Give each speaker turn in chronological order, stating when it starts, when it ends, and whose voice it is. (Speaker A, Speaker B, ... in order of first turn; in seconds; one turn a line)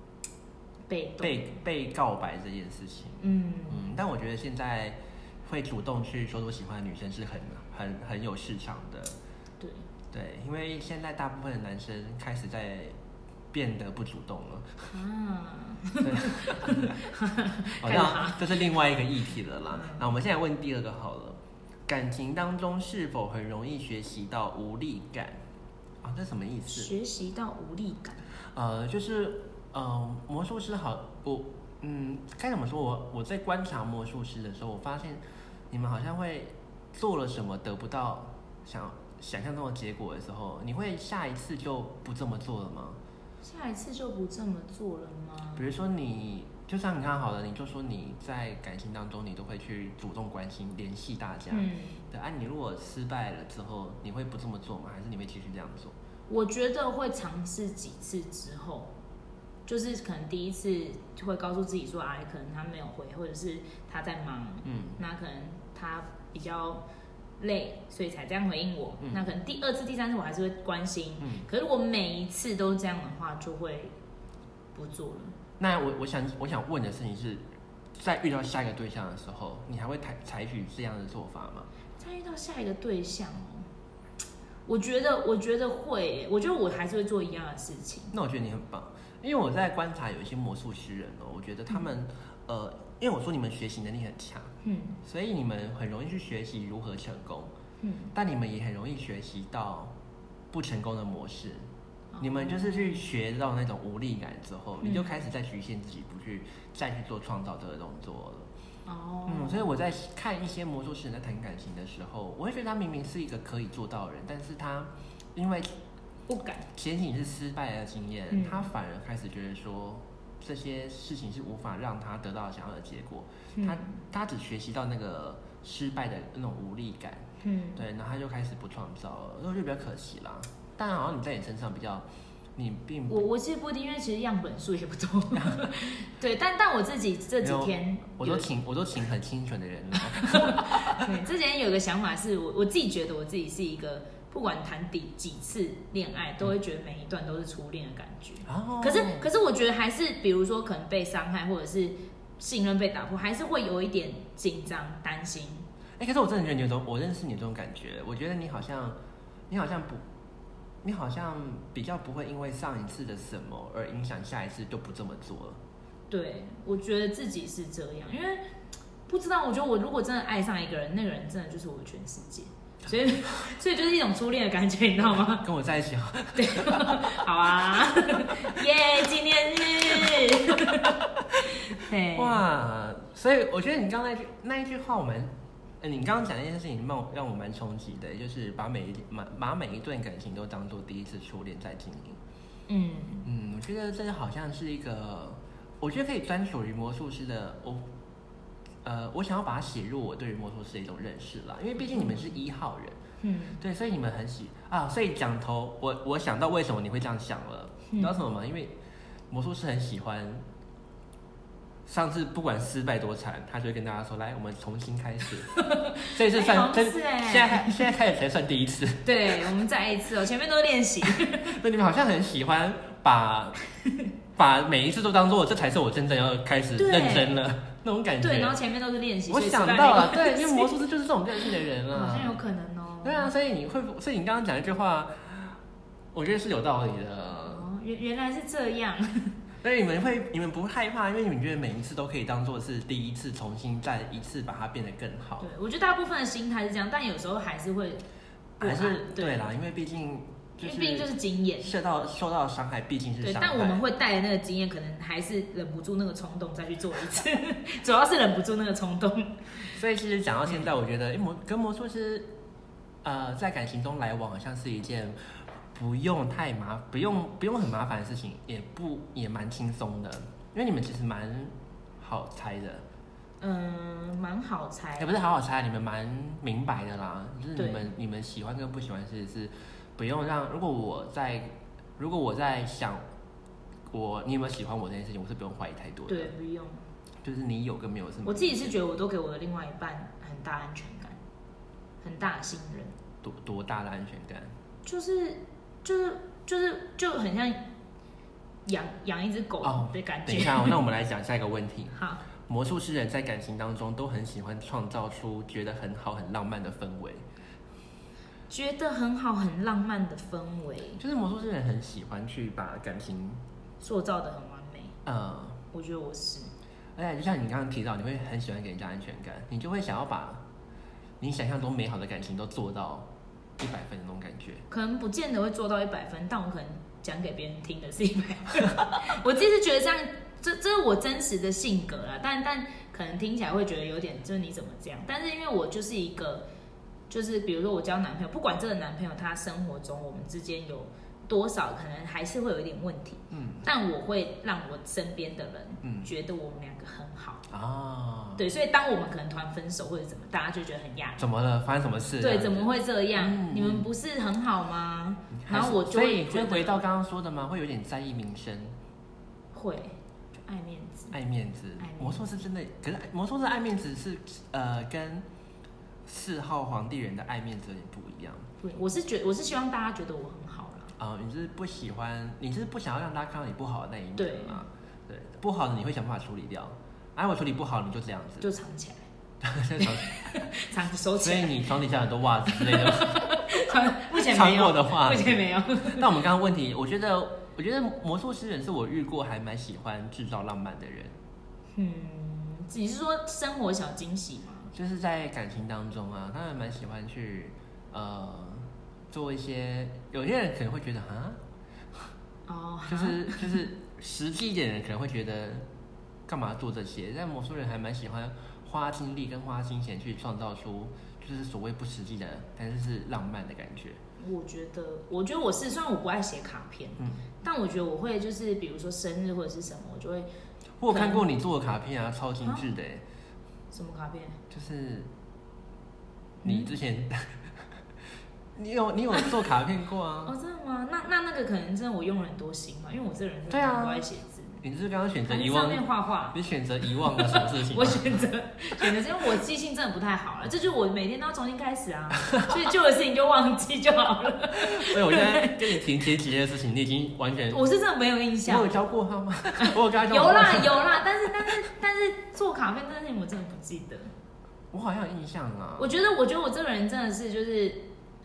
Speaker A: 0.9-1.6
Speaker B: 1.2-9.1
Speaker A: 3.2-3.9
Speaker B: 10.1-12.9
Speaker B: 13.5-14.9
Speaker A: 14.9-18.7
Speaker B: 16.0-17.0
Speaker B: 17.8-25.4
Speaker A: 19.7-20.1
Speaker B: 26.0-26.9
Speaker A: 26.7-28.3
Speaker B: 28.5-43.0
Speaker A: 43.4-45.6
Speaker B: 45.5-55.9
Speaker A: 51.5-52.0
Speaker A: 56.3-58.9
Speaker A: 59.6-66.8
Speaker B: 64.6-65.0
Speaker A: 67.4-74.0
Speaker B: 71.2-71.4
Speaker A: 74.7-75.4
Speaker B: 75.6-77.4
Speaker B: 78.0-81.7
Speaker A: 82.0-83.7
Speaker A: 84.7-88.1
Speaker B: 88.1-94.5
Speaker A: 94.6-95.0
Speaker B: 95.0-97.5
Speaker A: 97.8-98.1
Speaker B: 98.1-99.9
Speaker B: 100.5-101.7
Speaker A: 102.1-103.1
Speaker B: 102.2-108.5
Speaker A: 104.8-105.1
Speaker A: 108.8-109.7
Speaker B: 109.3-115.7
Speaker A: 116.3-116.7
Speaker B: 116.7-133.2
Speaker A: 118.3-118.7
Speaker A: 123.5-123.9
Speaker A: 127.4-127.8
Speaker A: 133.1-138.5
Speaker B: 137.4-141.1
Speaker A: 140.0-155.7
Speaker B: 148.5-149.3
Speaker B: 156.0-159.0
Speaker B: 159.5-160.0
Speaker B: 160.8-165.6
Speaker A: 166.1-168.4
Speaker A: 169.1-175.4
Speaker B: 175.4-177.2
Speaker A: 176.3-181.0
Speaker B: 181.3-192.2
Speaker A: 181.6-182.4
Speaker A: 192.7-193.3
Speaker B: 193.2-197.8
Speaker B: 198.8-203.0
Speaker A: 201.8-202.2
Speaker A: 203.2-203.6
Speaker B: 203.6-208.7
Speaker B: 209.3-210.4
Speaker B: 211.8-219.4
Speaker A: 215.5-217.8
Speaker A: 219.0-221.5
Speaker B: 221.1-223.6
Speaker B: 224.3-228.6
Speaker A: 226.8-227.4
Speaker A: 228.2-230.8
Speaker B: 229.3-232.4
Speaker A: 231.4-233.3
Speaker B: 233.0-235.6
Speaker B: 236.1-237.6
Speaker A: 237.4-239.3
Speaker B: 239.6-245.5
Speaker A: 245.4-248.0
Speaker A: 248.6-249.5
Speaker B: 248.6-253.8
Speaker A: 250.6-251.7
Speaker A: 253.2-259.7
Speaker B: 259.7-262.3
Speaker B: 263.0-272.8
Speaker A: 273.4-275.1
Speaker B: 275.0-283.0
Speaker A: 277.6-277.9
Speaker B: 283.9-286.3
Speaker A: 286.1-286.8
Speaker B: 287.2-288.8
Speaker A: 288.2-291.2
Speaker A: 292.0-292.9
Speaker B: 293.2-294.5
Speaker A: 294.8-297.6
Speaker A: 298.6-300.8
Speaker B: 299.6-307.2
Speaker A: 301.9-302.2
Speaker A: 308.5-311.0
Speaker B: 311.0-313.4
Speaker A: 313.8-315.0
Speaker B: 315.0-315.6
Speaker A: 315.7-316.5
Speaker B: 316.9-320.4
Speaker B: 321.2-323.1
Speaker B: 323.6-324.6
Speaker A: 324.7-336.4
Speaker A: 337.1-347.4
Speaker B: 343.3-343.6
Speaker B: 345.8-346.1
Speaker B: 347.5-348.4
Speaker A: 348.4-351.2
Speaker B: 351.2-353.9
Speaker A: 352.2-356.8
Speaker B: 355.3-358.7
Speaker A: 359.5-361.1
Speaker B: 361.1-365.2
Speaker A: 361.8-362.2
Speaker B: 366.1-368.5
Speaker A: 368.6-370.9
Speaker B: 371.0-378.5
Speaker A: 374.2-374.6
Speaker A: 378.4-379.1
Speaker B: 379.4-380.5
Speaker A: 379.8-381.7
Speaker B: 381.2-383.3
Speaker A: 382.5-386.1
Speaker B: 384.1-391.1
Speaker A: 391.7-394.7
Speaker B: 394.7-401.4
Speaker A: 402.5-403.7
Speaker B: 402.9-405.6
Speaker B: 406.3-414.0
Speaker A: 414.2-420.3
Speaker B: 417.0-417.2
Speaker B: 420.8-423.0
Speaker A: 420.9-421.3
Speaker A: 423.7-424.4
Speaker B: 424.5-425.1
Speaker A: 426.4-426.7
Speaker B: 426.4-427.4
Speaker B: 428.6-430.3
Speaker A: 430.2-434.6
Speaker B: 433.5-434.0
Speaker B: 434.6-438.2
Speaker A: 435.3-445.9
Speaker B: 442.2-442.5
Speaker B: 444.5-447.6
Speaker A: 447.5-448.7
Speaker B: 448.4-451.5
Speaker A: 449.6-454.1
Speaker B: 454.7-455.9
Speaker A: 455.8-457.9